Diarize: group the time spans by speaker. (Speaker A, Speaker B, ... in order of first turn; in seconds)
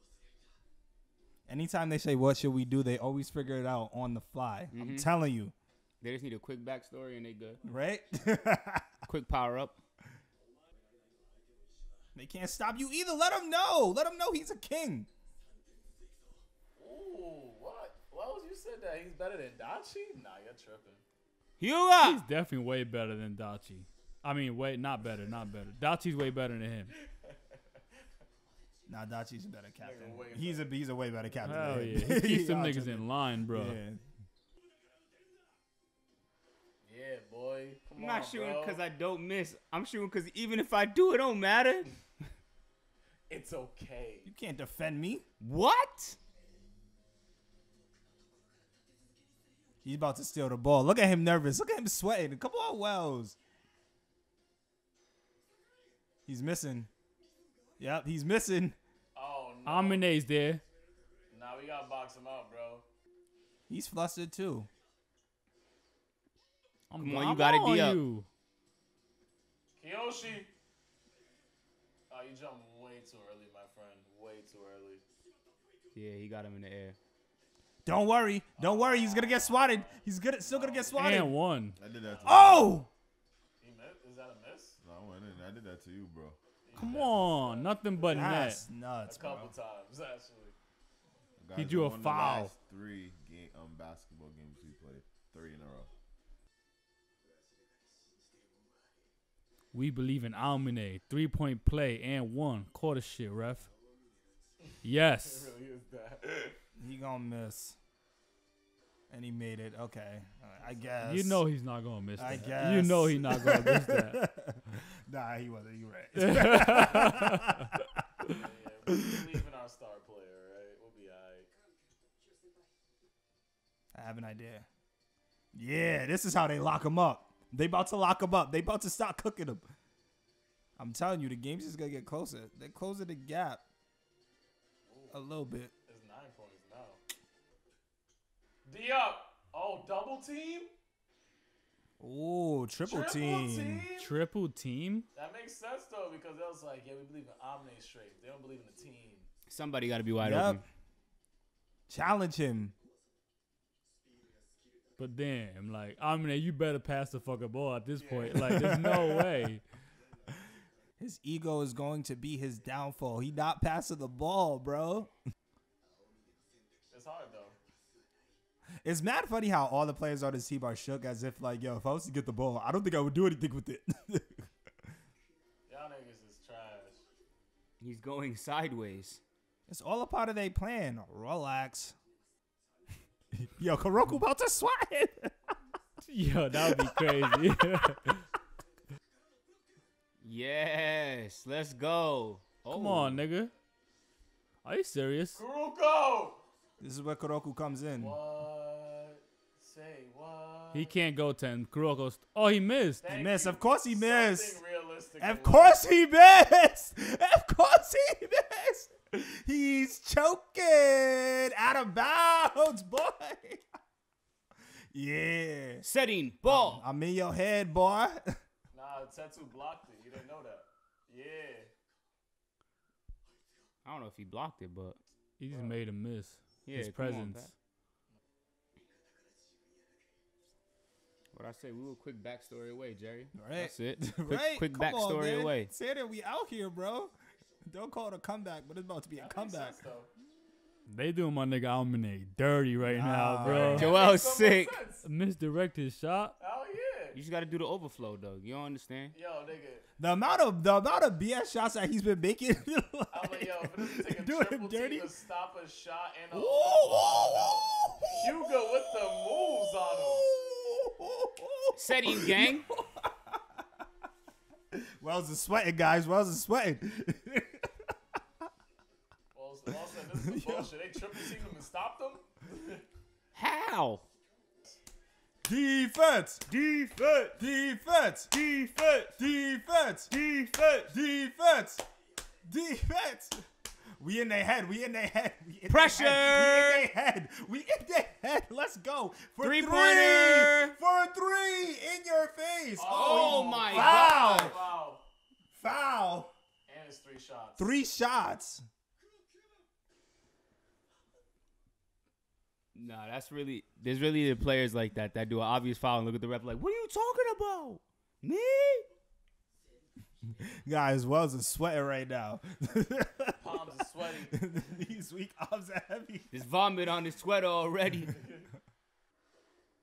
Speaker A: 1.5-5.5, 7.6-8.9, 12.2-15.1, 28.9-34.0, 44.2-45.2, 49.8-53.4, 56.3-56.9, 57.8-58.8, 63.7-64.7, 77.8-81.3, 82.2-82.9, 88.1-89.5, 106.8-107.8, 109.1-111.4, 112.2-117.6, 123.9-124.7, 125.5-129.7, 130.8-133.6, 135.1-135.7, 142.0-143.9, 150.2-150.6, 151.9-152.8, 158.4-159.2, 161.0-165.1, 168.8-174.5, 179.7-181.9, 183.3-185.3, 186.7-187.3, 196.8-198.2, 203.1-204.6, 205.2-213.6, 214.9-215.9, 216.4-218.4, 233.3-237.1, 237.7-239.8, 242.8-243.9, 250.0-255.1, 256.3-263.6, 264.7-267.7, 270.1-271.4, 275.4-276.5, 277.4-278.3, 279.2-280.1, 280.9-281.8, 282.4-283.4, 284.0-294.6, 295.5-296.3, 297.6-298.7, 310.4-313.6, 314.2-316.3
Speaker B: 4.7-5.1, 6.0-7.6, 9.1-9.8, 21.6-22.2, 38.0-42.0, 45.4-46.2, 67.0-68.0, 75.9-77.0, 149.5-150.6, 177.8-179.2, 190.2-193.2, 215.8-216.8, 223.8-225.0, 226.7-227.5, 231.3-235.7, 243.8-244.8, 247.1-249.2, 261.7-262.7, 273.3-274.0, 276.5-277.4, 278.3-279.2, 280.1-280.9, 285.7-286.9, 289.4-290.7, 292.9-294.6, 302.7-308.9, 316.3-318.2
Speaker C: 16.8-21.0, 29.8-30.7, 36.8-38.8, 43.3-44.3, 59.1-60.0, 61.3-62.9, 69.8-70.5, 72.1-75.0, 78.6-81.1, 82.1-82.8, 83.6-84.8, 86.7-88.4, 89.1-90.6, 105.2-106.6, 110.7-110.9, 118.3-121.5, 134.9-135.2, 135.9-137.0, 138.7-140.7, 142.9-144.1, 145.1-149.3, 158.0-158.4, 166.9-167.6, 175.7-177.0, 195.3-196.4, 198.0-200.9, 203.0-205.8, 218.7-221.7, 225.5-225.8, 239.2-240.1, 243.5-245.1, 246.4-247.2, 249.1-249.8, 253.1-260.3, 269.3-272.8, 292.8-295.0, 296.7-297.8, 313.4-314.4, 318.2-318.5
Speaker D: 22.0-26.9, 31.4-33.8, 59.7-60.6, 66.9-68.3, 81.0-81.8, 86.8-88.6, 91.5-92.5, 99.7-103.7, 104.8-105.5, 111.0-114.2, 116.2-117.5, 144.0-145.1, 155.0-159.6, 186.0-188.2, 192.7-193.5, 194.6-195.4, 200.7-203.0, 225.4-227.5, 240.9-243.9, 245.0-246.4
Speaker E: 81.8-82.8, 84.8-86.4, 91.4-95.9